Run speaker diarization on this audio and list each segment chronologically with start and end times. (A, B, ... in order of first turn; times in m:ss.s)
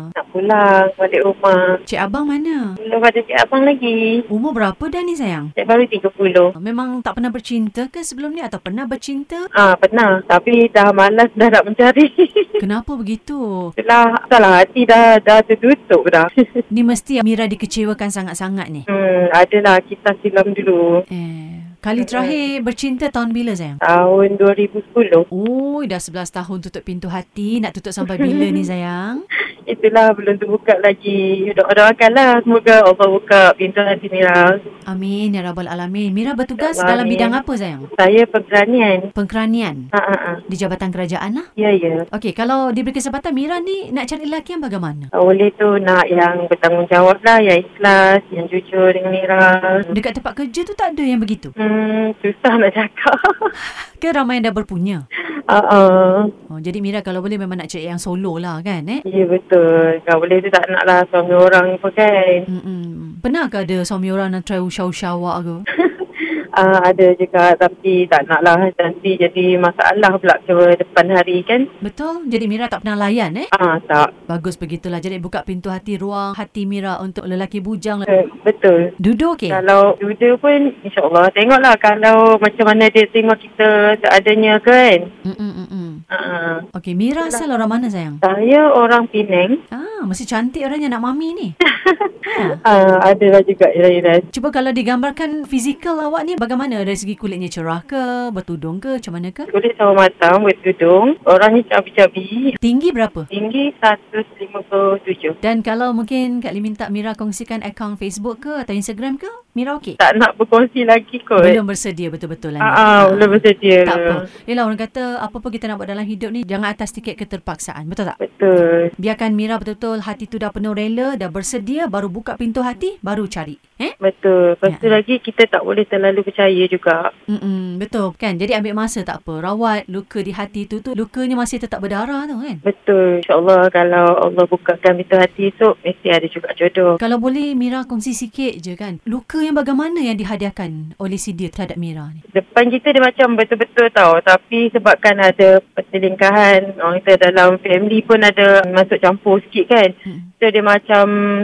0:00.2-0:01.6 A
0:01.9-0:02.6 B
0:02.9-0:04.0 A
0:04.3-0:05.5 B
0:05.6-0:06.5 A
0:06.6-0:09.4 B
0:09.6-0:12.4 A
0:12.6-0:13.7 B
0:13.8-0:16.4 A
0:16.7-0:18.8 B
0:18.9-0:20.9 A
0:21.1-0:23.8 B
0:22.0-0:22.3 A
0:23.8-0:25.2 A
0:25.3-0:29.2 B
0:28.2-0:28.5 A
0:29.7-0:34.6 A
0:34.9-0:37.9 B
0:36.6-0:37.4 A
0:38.0-0:39.1 A
0:39.2-0:39.9 B
0:40.0-0:40.4 A
0:40.5-0:41.5 B
0:41.6-0:42.0 A
0:42.1-0:45.1 B
0:45.2-0:49.8 A
0:49.9-0:51.5 B
0:51.6-0:53.5 A
0:54.0-0:55.0 B
0:55.5-0:56.3 A
0:56.5-0:59.0 B
0:59.1-1:02.4 A
1:02.5-1:05.6 B
1:05.8-1:11.6 A
1:11.8-1:13.5 B
1:13.5-1:14.1 A
1:14.3-1:18.1 B
1:18.1-1:18.8 A
1:19.0-1:19.6 B
1:19.5-1:25.0 A
1:25.3-1:26.0 B
1:26.1-1:26.6 A
1:26.8-1:28.2 B
1:28.2-1:29.6 A
1:29.7-1:31.5 B
1:31.8-1:34.2 A
1:32.3-1:32.6 B
1:34.3-1:39.5 B
1:39.5-1:42.5 A
1:42.6-1:43.3 B
1:43.3-1:45.4 A
1:45.4-1:50.0 B
1:50.0-1:51.6 A
1:51.4-1:58.2 B
1:52.6-1:54.2 A
1:58.2-1:58.9 A
1:59.0-2:03.9 B
2:04.0-2:07.0 A
2:04.7-2:05.0 B
2:07.3-2:12.6 B
2:12.6-2:17.0 A
2:17.0-2:22.2 B
2:22.3-2:31.1 A
2:30.1-2:30.3 B